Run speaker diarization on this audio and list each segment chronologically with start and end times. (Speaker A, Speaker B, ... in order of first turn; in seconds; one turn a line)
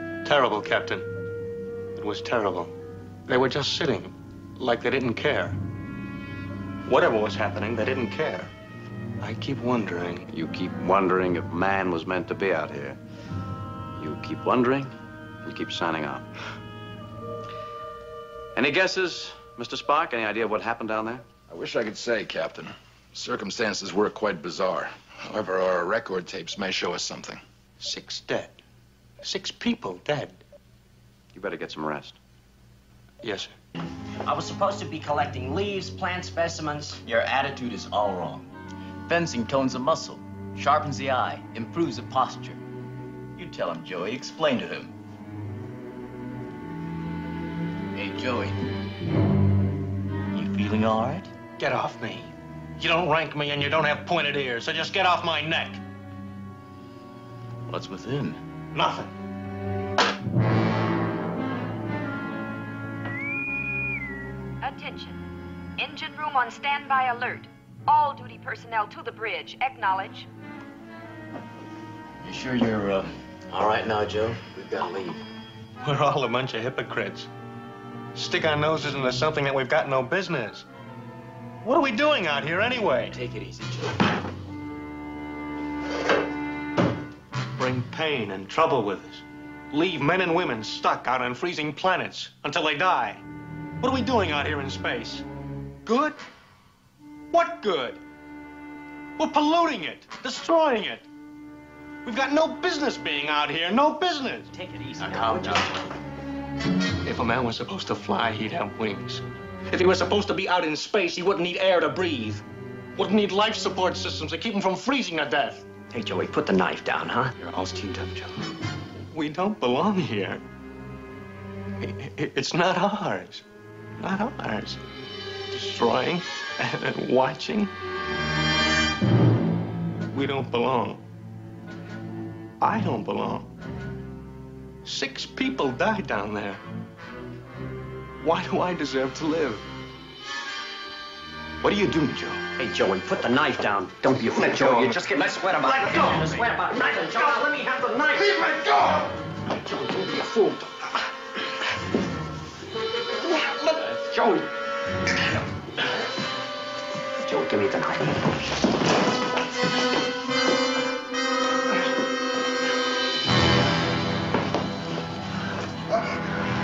Speaker A: 0.2-1.1
Speaker A: 2.0-2.7
Speaker A: 3.3-5.6
Speaker A: 6.9-8.5
Speaker A: 9.2-10.3
Speaker B: 10.3-13.0
Speaker B: 14.0-16.3
Speaker B: 18.6-21.2
Speaker C: 21.5-27.4
Speaker A: 27.8-28.6
Speaker A: 29.2-30.4
Speaker B: 31.3-32.2
Speaker A: 33.2-33.5
Speaker D: 34.3-37.0
Speaker E: 37.0-38.5
Speaker E: 39.1-42.6
Speaker E: 43.4-44.9
Speaker E: 48.0-48.7
Speaker E: 50.3-51.3
Speaker A: 51.6-55.8
Speaker E: 57.7-58.4
Speaker A: 58.7-59.1
Speaker F: 64.6-65.2
Speaker F: 65.8-70.3
Speaker E: 72.2-75.2
Speaker A: 75.8-77.3
Speaker A: 78.2-80.7
Speaker A: 81.6-83.2
Speaker E: 83.1-84.0
Speaker A: 87.6-93.2
Speaker A: 93.8-95.2
Speaker A: 95.8-96.2
Speaker A: 97.3-98.0
Speaker A: 99.2-101.1
Speaker A: 102.0-105.8
Speaker E: 104.5-105.8
Speaker A: 107.0-112.4
Speaker A: 113.0-115.6
Speaker D: 115.9-117.5
Speaker A: 119.1-120.4
Speaker A: 121.8-123.4
Speaker A: 124.0-124.8
Speaker A: 125.5-127.7
Speaker A: 130.1-131.0
Speaker A: 132.6-133.5
Speaker A: 134.8-136.6
Speaker A: 138.2-139.6
Speaker E: 141.7-142.4
Speaker A: 141.7-142.1
Speaker D: 142.6-148.3
Speaker A: 144.3-150.9
Speaker A: 153.3-154.5
Speaker D: 157.2-158.3